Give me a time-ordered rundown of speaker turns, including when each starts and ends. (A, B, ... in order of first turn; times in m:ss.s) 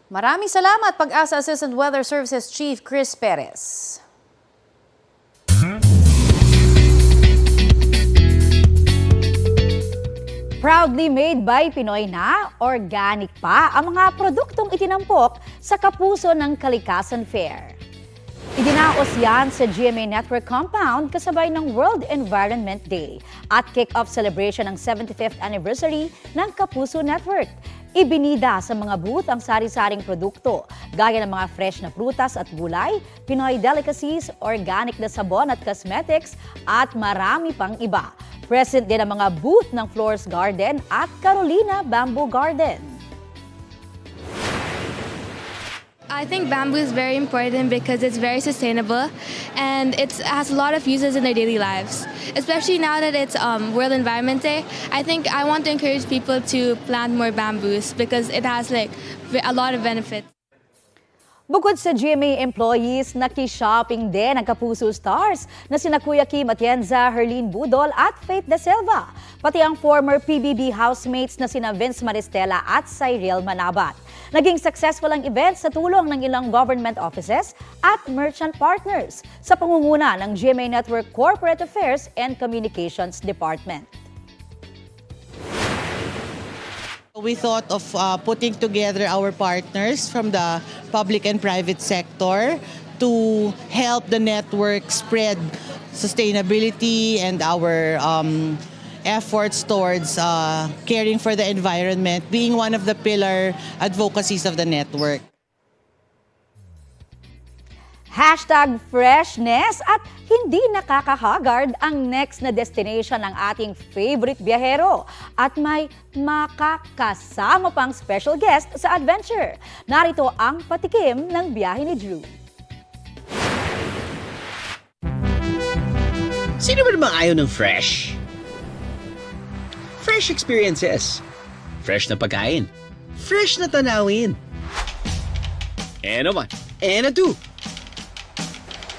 0:00.1-0:04.0 A
0:10.6-0:17.8 B
0:18.6-0:43.0 B
0:46.1-1:00.3 C
1:01.5-1:23.9 B
1:27.2-1:45.2 D
1:48.1-2:02.3 B
2:06.6-2:08.2 E
2:10.0-2:11.2 E
2:11.8-2:14.4 E
2:16.0-2:17.4 E